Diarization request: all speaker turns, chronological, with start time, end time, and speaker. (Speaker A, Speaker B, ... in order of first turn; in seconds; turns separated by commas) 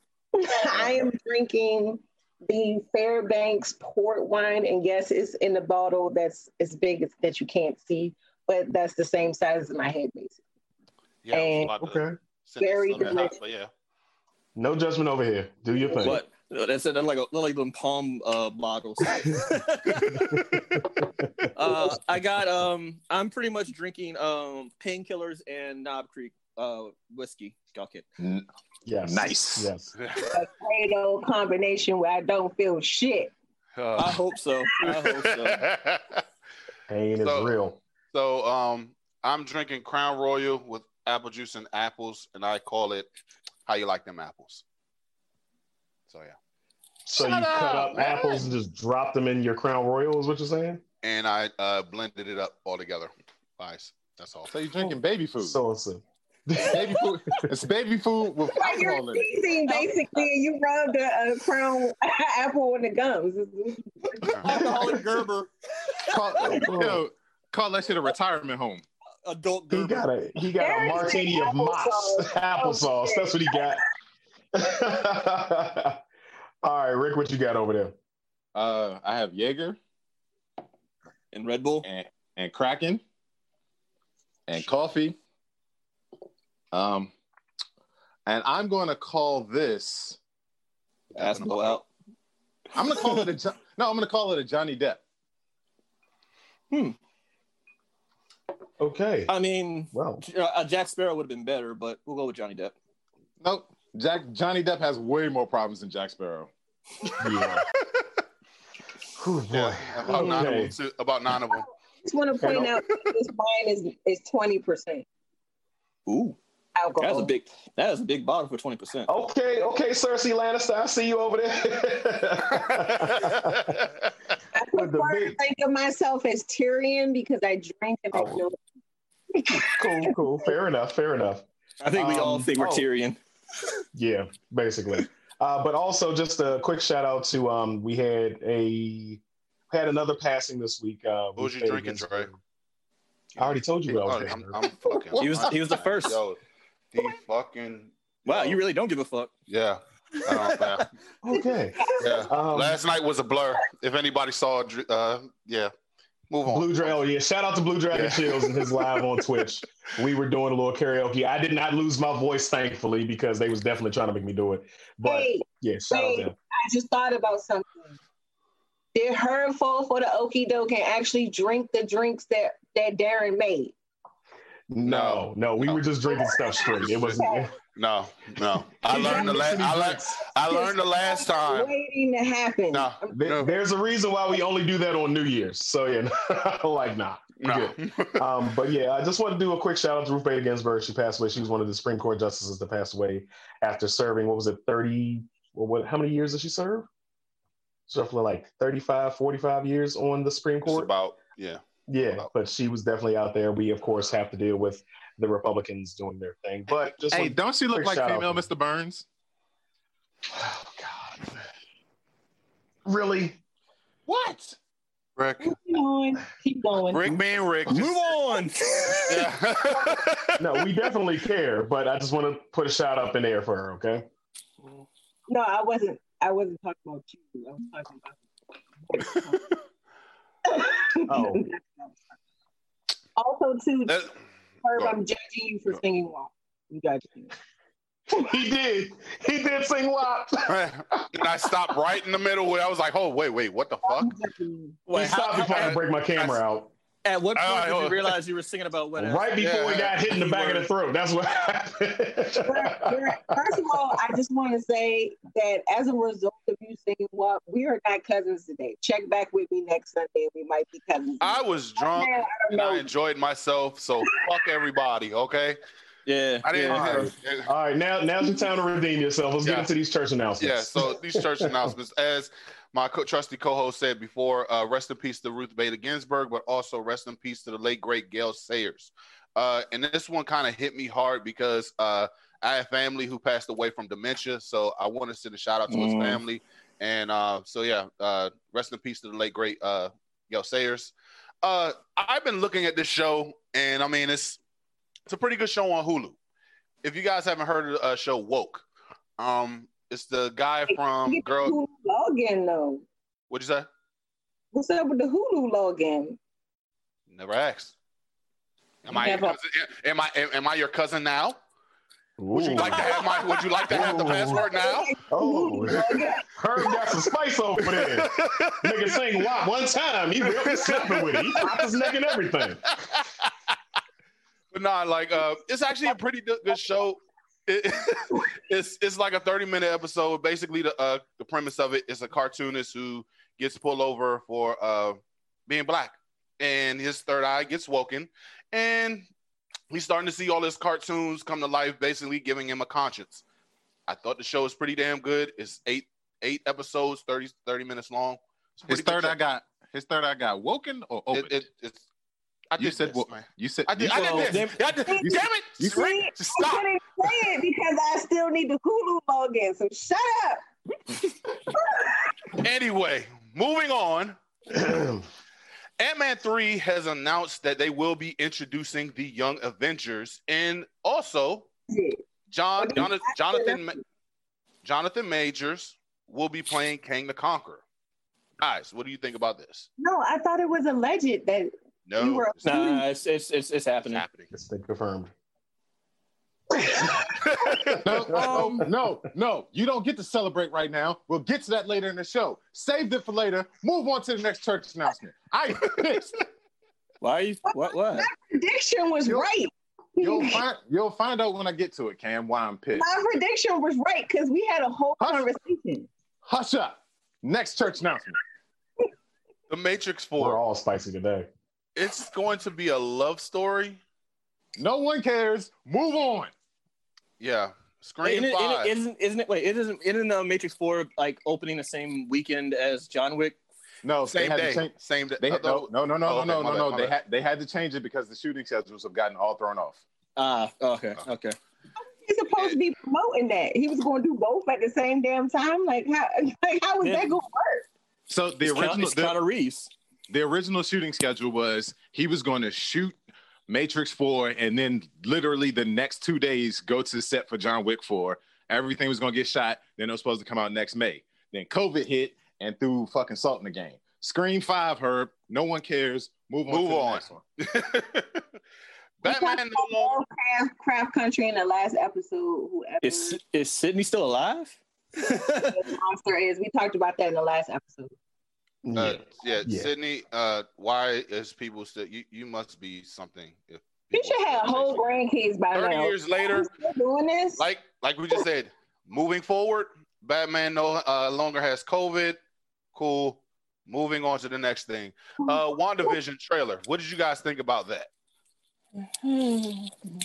Speaker A: 0.4-10.4, Speaker B: 11.2-13.7, Speaker A: 11.3-11.7, Speaker C: 11.8-12.2, Speaker A: 12.6-13.4, Speaker C: 14.6-16.2, Speaker D: 16.0-20.5, Speaker C: 20.3-22.0, Speaker D: 21.6-28.1, Speaker E: 28.2-28.5, Speaker C: 28.9-29.9, Speaker E: 29.1-29.7, Speaker B: 30.0-30.3, Speaker A: 30.3-33.3, Speaker B: 33.8-34.2, Speaker D: 34.0-35.7, Speaker B: 34.8-36.2, Speaker C: 36.9-37.8, Speaker B: 37.2-37.5, Speaker B: 38.1-43.1, Speaker B: 43.7-44.6, Speaker B: 46.1-46.4, Speaker C: 47.0-50.8, Speaker B: 47.1-48.5, Speaker B: 51.0-54.5, Speaker E: 54.5-55.6, Speaker C: 54.8-56.8, Speaker E: 56.6-59.3, Speaker A: 58.5-64.6, Speaker D: 64.4-66.0, Speaker C: 64.8-65.0, Speaker E: 66.1-68.8, Speaker C: 66.5-67.0, Speaker D: 69.2-70.1, Speaker C: 69.7-73.8, Speaker A: 70.6-73.8, Speaker C: 74.5-76.0, Speaker C: 76.6-78.0, Speaker E: 78.5-79.8, Speaker D: 81.3-81.9, Speaker E: 81.8-83.0, Speaker E: 84.5-85.2, Speaker E: 86.7-87.1, Speaker E: 88.3-90.2, Speaker D: 91.2-91.9, Speaker B: 91.2-91.8, Speaker E: 92.8-95.0, Speaker D: 96.7-97.0, Speaker C: 98.8-99.3, Speaker D: 99.3-102.7, Speaker C: 99.9-100.2, Speaker E: 103.4-106.5, Speaker C: 107.2-107.7, Speaker C: 109.2-110.7, Speaker B: 109.5-111.7, Speaker A: 111.5-115.1, Speaker C: 112.4-112.8, Speaker D: 116.1-116.4, Speaker A: 116.8-117.3, Speaker D: 117.0-119.1, Speaker C: 119.1-123.8, Speaker B: 123.3-123.8, Speaker A: 124.5-128.6, Speaker C: 124.7-125.4, Speaker C: 128.1-128.4, Speaker A: 129.3-130.2, Speaker C: 129.7-132.8, Speaker D: 131.8-133.2, Speaker C: 133.9-142.4, Speaker B: 141.4-142.3, Speaker B: 143.3-146.4, Speaker C: 143.4-144.6, Speaker E: 144.8-145.8, Speaker D: 145.2-146.2, Speaker B: 146.9-148.6, Speaker D: 148.3-149.3, Speaker B: 149.5-150.8, Speaker D: 150.2-150.9, Speaker C: 151.2-152.8, Speaker A: 151.3-152.3, Speaker B: 152.0-155.7, Speaker B: 156.3-156.9, Speaker C: 156.5-166.3, Speaker B: 157.9-158.8, Speaker A: 165.0-168.0, Speaker A: 168.9-173.7, Speaker C: 174.7-177.5, Speaker B: 174.8-175.8, Speaker A: 176.1-177.5, Speaker B: 176.8-177.2, Speaker B: 177.8-181.7, Speaker C: 178.8-180.1, Speaker A: 178.9-179.5, Speaker A: 180.4-183.2, Speaker B: 182.7-183.6, Speaker C: 183.1-196.9, Speaker B: 187.4-188.2, Speaker C: 197.9-200.9, Speaker B: 200.6-202.3, Speaker C: 201.9-208.4, Speaker E: 207.1-209.1, Speaker C: 210.3-211.3, Speaker C: 212.9-213.4, Speaker E: 214.1-214.6, Speaker B: 215.2-215.5, Speaker A: 215.4-217.2, Speaker B: 216.9-218.0, Speaker D: 217.7-219.3, Speaker B: 219.1-220.4, Speaker C: 220.4-224.1, Speaker A: 225.3-228.2, Speaker A: 228.9-229.5, Speaker A: 230.4-232.0, Speaker C: 231.1-231.4, Speaker A: 233.2-234.1, Speaker A: 234.6-237.3, Speaker C: 238.1-241.3, Speaker B: 240.5-244.1, Speaker A: 243.8-244.8, Speaker D: 244.9-245.8, Speaker C: 244.9-246.7, Speaker B: 244.9-246.4, Speaker D: 247.1-250.7, Speaker B: 247.3-248.2, Speaker C: 249.0-253.3, Speaker B: 249.4-249.9, Speaker A: 252.4-262.9, Speaker B: 261.2-265.6, Speaker D: 266.1-267.1, Speaker B: 266.4-267.5, Speaker C: 266.7-271.7, Speaker B: 269.4-269.7, Speaker B: 270.4-294.4, Speaker D: 285.7-286.2, Speaker B: 295.1-296.2, Speaker B: 296.8-298.7, Speaker B: 299.2-301.6, Speaker A: 300.7-302.9, Speaker B: 303.3-303.7, Speaker A: 304.5-306.2, Speaker B: 307.1-307.8, Speaker B: 308.9-311.4, Speaker A: 308.9-309.4, Speaker C: 312.2-312.9, Speaker B: 312.4-314.9, Speaker C: 313.7-314.4, Speaker A: 314.2-316.3, Speaker C: 315.1-322.6, Speaker B: 317.6-319.0, Speaker B: 320.2-321.6, Speaker B: 322.7-323.3, Speaker B: 324.5-339.1, Speaker B: 339.7-343.2, Speaker B: 343.9-349.2, Speaker E: 348.7-351.4, Speaker B: 351.1-351.8, Speaker B: 352.5-356.7, Speaker E: 352.6-355.8, Speaker D: 353.9-354.7, Speaker A: 354.8-360.4, Speaker A: 361.5-362.1, Speaker B: 362.4-364.2, Speaker C: 364.5-365.1, Speaker B: 365.8-371.5, Speaker A: 371.7-372.0, Speaker B: 372.3-373.8, Speaker A: 372.6-373.6, Speaker B: 374.6-377.6, Speaker B: 378.4-379.7, Speaker A: 379.8-382.9, Speaker B: 381.9-382.4, Speaker D: 382.4-384.0, Speaker B: 383.8-384.3, Speaker C: 384.3-385.1, Speaker B: 387.2-387.8, Speaker E: 387.8-396.2, Speaker C: 388.0-388.8, Speaker D: 388.1-388.6, Speaker D: 397.0-398.1, Speaker A: 397.5-400.4, Speaker E: 399.0-399.3, Speaker E: 400.0-402.9, Speaker A: 402.8-405.9, Speaker E: 405.0-405.3, Speaker E: 406.2-408.2, Speaker B: 409.5-410.4, Speaker C: 410.2-411.3, Speaker B: 411.8-413.8, Speaker E: 414.6-416.3, Speaker B: 417.2-418.7, Speaker D: 418.0-423.4, Speaker E: 423.8-429.8, Speaker B: 424.1-426.9, Speaker D: 430.2-431.4, Speaker A: 432.0-437.7, Speaker D: 436.8-437.2, Speaker E: 438.1-439.2, Speaker D: 438.4-439.7, Speaker E: 440.1-457.2, Speaker B: 456.5-458.2, Speaker B: 459.0-460.0, Speaker A: 459.0-463.2, Speaker D: 462.8-465.6, Speaker A: 465.5-467.9, Speaker C: 468.6-469.7, Speaker B: 468.8-474.9, Speaker A: 473.9-477.4, Speaker B: 475.5-476.5, Speaker B: 477.4-482.2, Speaker B: 482.8-487.9, Speaker A: 485.2-485.9, Speaker D: 489.0-489.7